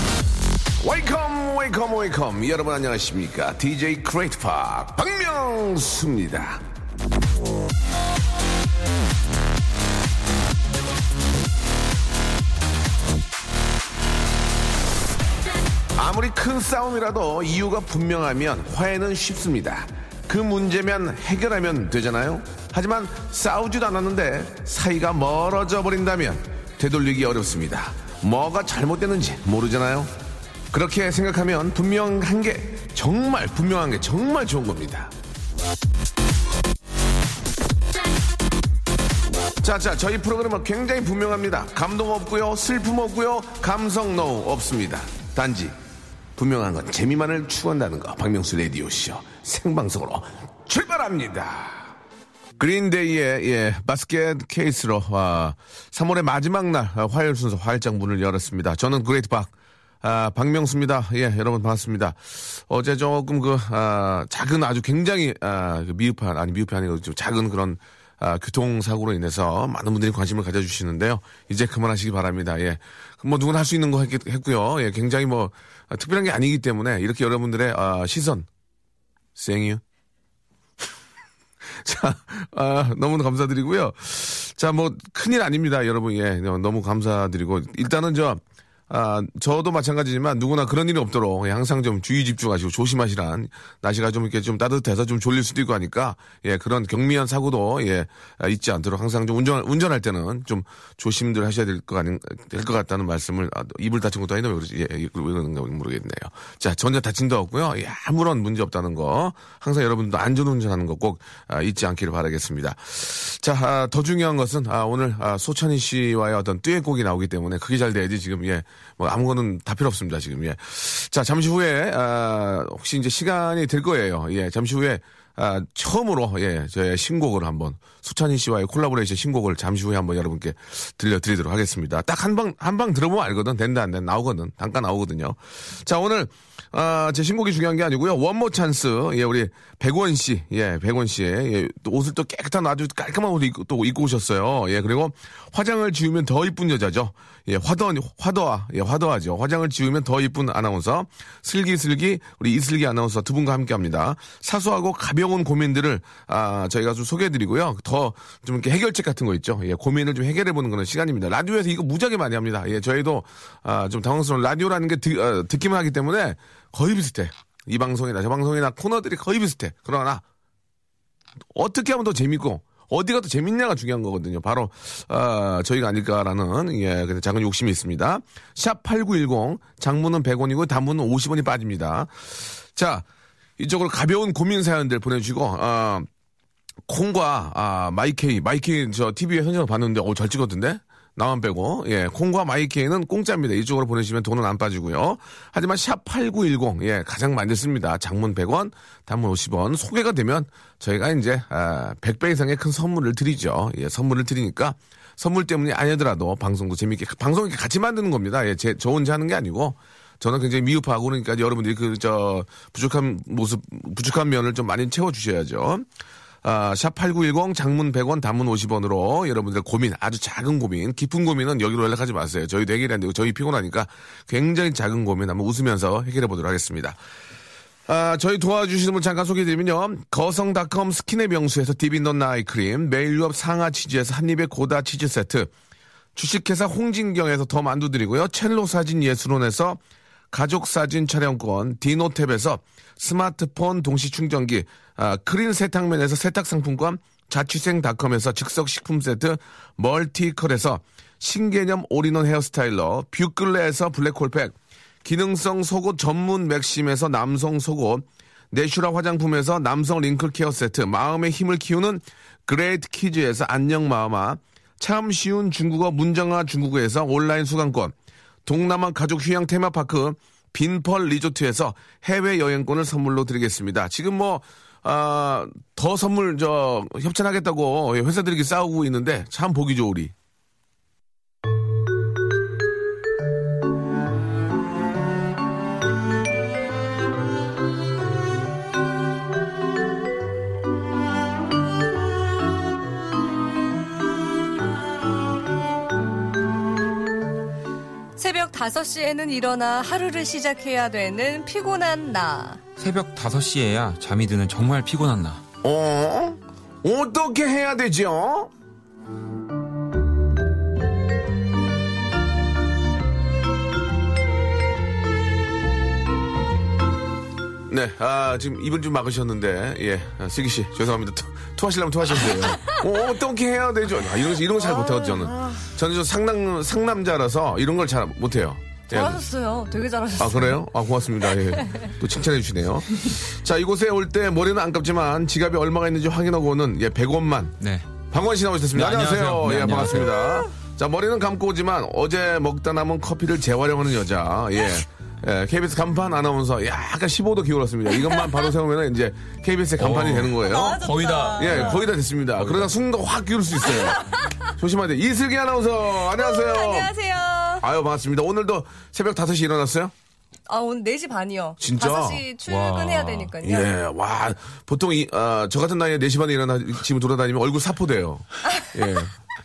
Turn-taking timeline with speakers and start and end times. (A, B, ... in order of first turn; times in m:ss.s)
0:00.8-0:06.6 A
0:16.0-0:30.1 A
0:30.7-0:35.1 A
0:39.6-0:45.8 A
0:46.4-0:51.9 A
0:52.6-1:18.5 A
1:19.4-1:19.8 A
1:21.8-2:50.2 A
2:51.5-3:03.0 A
3:03.6-3:06.1 A
3:06.9-3:35.9 A
3:36.4-3:47.0 A
3:47.9-3:55.5 A
3:56.2-3:59.8 A
4:00.3-4:27.9 A
4:28.4-4:40.1 A
4:58.2-5:02.6 B
5:02.8-5:05.4 C
5:05.6-5:08.5 A
5:17.7-5:29.2 A
5:24.6-5:25.7 B
5:28.9-5:30.6 B
5:30.2-5:37.6 A
5:37.6-5:37.9 C
5:38.1-5:50.8 A
5:38.7-5:40.2 C
5:48.1-5:48.5 B
5:49.8-5:52.7 C
5:50.4-5:51.9 B
5:51.4-5:56.9 A
5:53.7-5:54.3 B
5:56.1-5:57.6 B
5:57.6-5:59.9 A
6:00.5-6:03.7 B
6:01.6-6:02.2 A
6:02.4-6:03.3 C
6:03.4-6:09.1 A